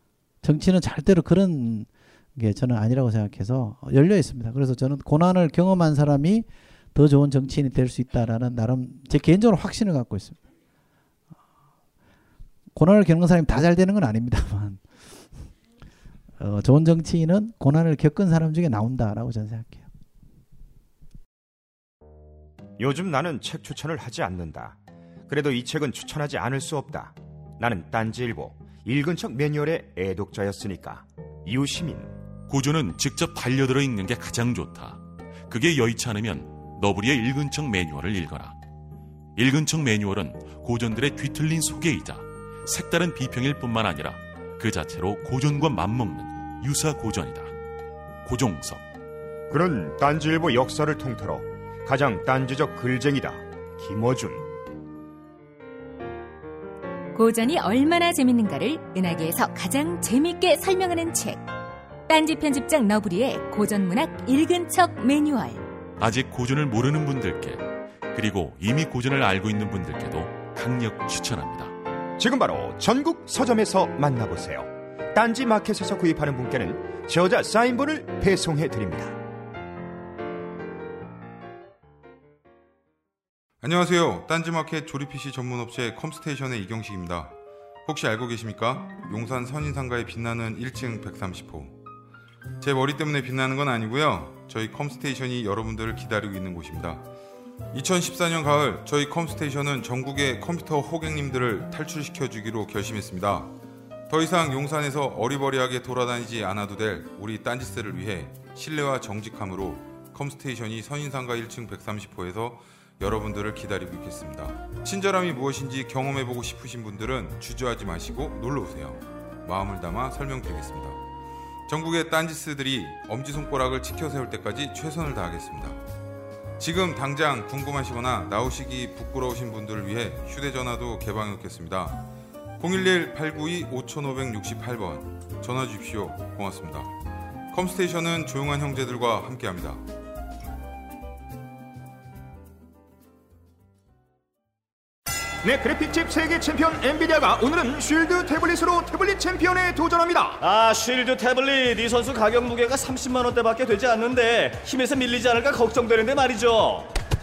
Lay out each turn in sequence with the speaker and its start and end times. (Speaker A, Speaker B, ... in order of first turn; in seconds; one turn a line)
Speaker A: 0.4-10.4
Speaker A: 12.7-14.8
Speaker A: 16.4-19.9
Speaker B: 22.8-24.8
Speaker B: 25.3-32.1
Speaker C: 32.5-38.6
Speaker C: 39.4-47.5
Speaker C: 48.2-48.8
Speaker B: 49.5-54.5
Speaker D: 57.1-61.4
Speaker D: 62.1-65.6
Speaker C: 66.0-71.7
Speaker B: 72.2-79.2
Speaker E: 83.6-91.8
Speaker E: 92.6-97.0
Speaker E: 97.7-103.5
Speaker E: 104.1-121.0
Speaker E: 121.7-125.8
Speaker E: 126.6-132.0
Speaker E: 132.6-136.9
Speaker E: 137.5-139.8
Speaker B: 145.4-150.4
Speaker F: 150.4-156.9